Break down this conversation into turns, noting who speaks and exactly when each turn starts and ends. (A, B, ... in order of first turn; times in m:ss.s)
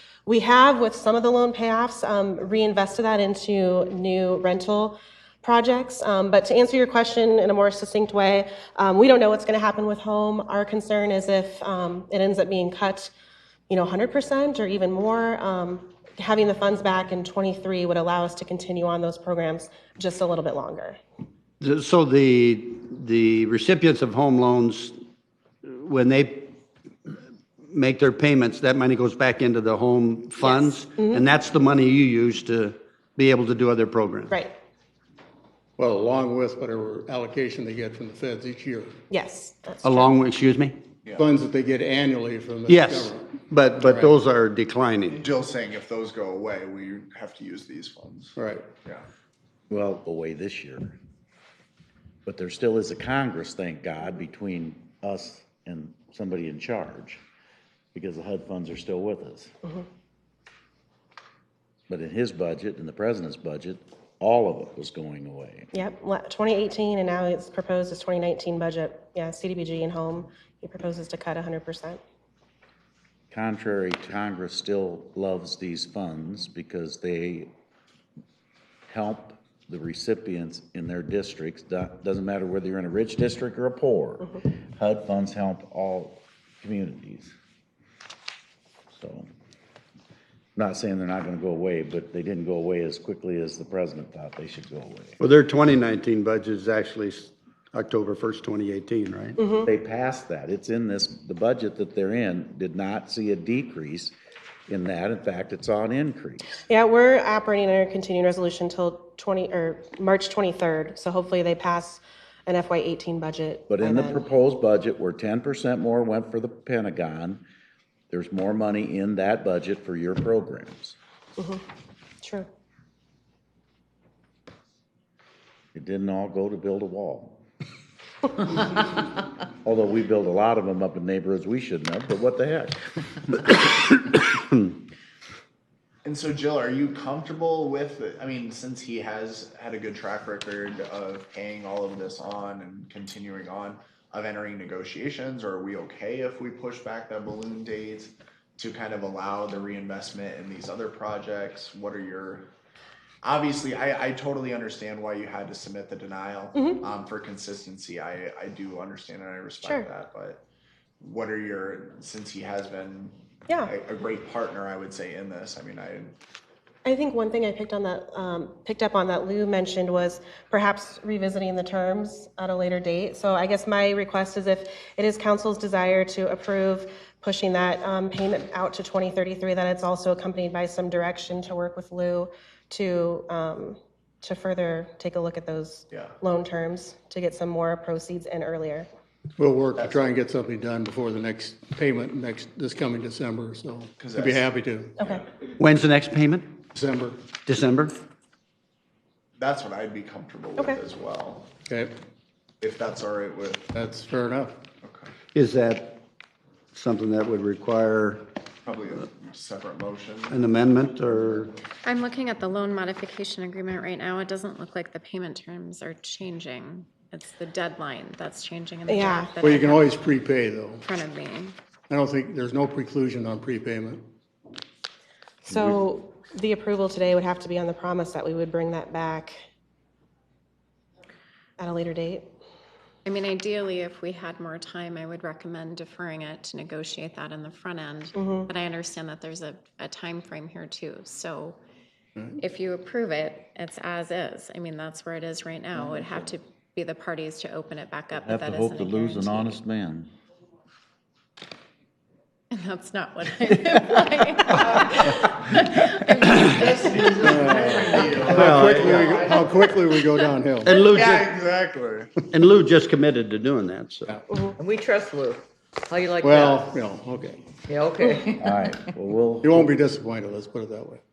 0:00.3-0:13.1 A
0:13.7-0:21.0 A
0:21.6-0:25.0 B
0:25.7-0:26.5 B
0:27.7-0:34.4 B
0:30.4-0:31.2 A
0:35.8-0:39.0 C
0:39.1-0:40.1 A
0:39.8-0:40.8 B
0:41.2-0:43.2 C
0:42.7-0:45.2 B
0:45.1-0:49.1 D
0:48.4-0:48.7 C
0:49.7-0:51.0 E
0:52.3-0:57.2 E
0:57.9-0:59.5 E
1:01.9-1:05.7 E
1:05.7-1:12.0 A
1:13.3-1:17.5 E
1:18.9-1:27.3 E
1:28.9-1:29.3 E
1:30.6-1:35.2 E
1:35.2-1:39.4 B
1:39.4-1:39.7 A
1:39.6-1:44.2 E
1:44.7-1:46.6 E
1:46.7-1:54.2 A
1:53.7-1:57.4 E
1:58.1-2:01.0 E
2:02.2-2:02.5 A
2:05.7-2:07.4 E
2:09.6-2:13.4 E
2:16.0-2:32.5 D
2:33.2-2:40.4 D
2:41.0-2:46.2 D
2:46.8-3:08.9 A
3:09.4-3:15.0 C
3:14.0-3:14.5 D
3:15.0-3:15.2 A
3:15.6-3:16.5 B
3:16.7-3:17.3 C
3:17.4-3:17.9 B
3:19.4-3:21.5 D
3:21.6-3:21.9 C
3:22.6-3:23.7 D
3:23.7-3:24.6 C
3:25.3-3:26.0 B
3:26.7-3:28.2 B
3:28.6-3:30.4 D
3:30.3-3:31.5 B
3:31.8-3:40.0 F
3:38.9-3:39.3 A
3:39.4-3:40.8 C
3:40.8-3:41.6 F
3:41.9-3:44.0 C
3:45.4-3:49.4 A
3:51.6-3:52.3 A
3:53.1-4:01.6 F
3:58.2-3:58.5 A
4:02.4-4:09.6 F
4:08.1-4:10.1 E
4:12.5-4:18.1 F
4:16.4-4:19.5 D
4:17.2-4:20.8 C
4:18.2-4:19.3 B
4:20.7-4:22.1 D
4:20.7-4:21.4 B
4:22.3-4:24.2 B
4:24.4-4:26.8 G
4:26.2-4:27.4 C
4:27.7-4:28.6 G
4:28.3-4:29.7 E
4:29.4-4:31.0 C